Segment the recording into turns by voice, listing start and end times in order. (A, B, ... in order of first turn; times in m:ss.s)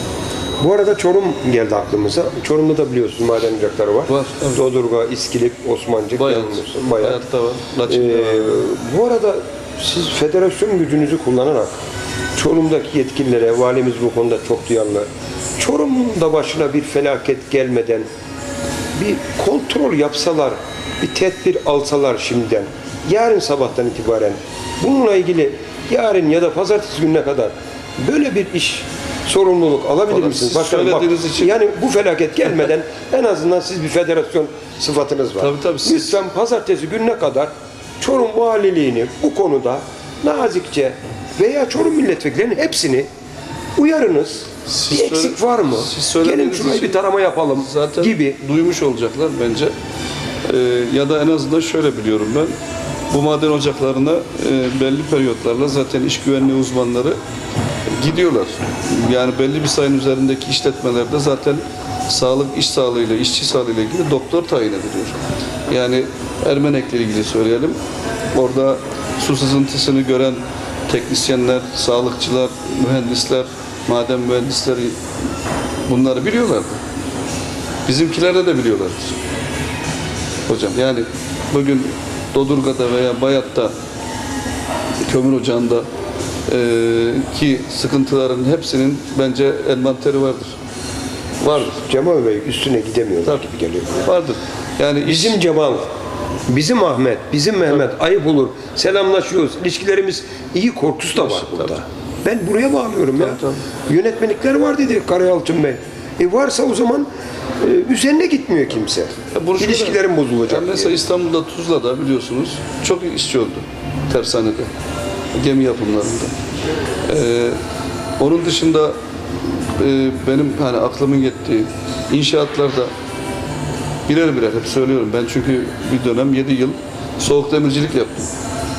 0:00.6-0:07.2 A
0:04.1-0:04.6 B
0:06.2-0:08.6 B
0:07.9-0:11.8 A
0:12.3-0:18.1 A
0:19.0-0:43.1 A
0:30.1-0:31.5 B
0:35.4-0:36.2 B
0:43.8-0:48.4 A
0:44.6-0:49.7 B
0:50.4-0:52.5 B
0:53.1-0:57.2 B
0:57.8-1:07.8 B
1:08.3-1:15.0 B
1:15.9-1:16.8 B
1:17.8-1:19.2 B
1:20.5-1:23.7 B
1:25.0-1:25.9 B
1:26.5-1:30.6 B
1:31.4-1:31.8 B
1:31.5-1:34.0 A
1:34.0-1:35.4 B
1:35.0-1:35.9 A
1:36.5-1:47.1 A
1:41.3-1:41.7 B
1:43.2-1:43.6 B
1:47.6-1:51.0 A
1:49.3-1:54.7 B
1:55.4-1:56.4 B
1:57.0-1:57.6 B
1:58.2-2:02.9 B
2:04.1-2:08.3 B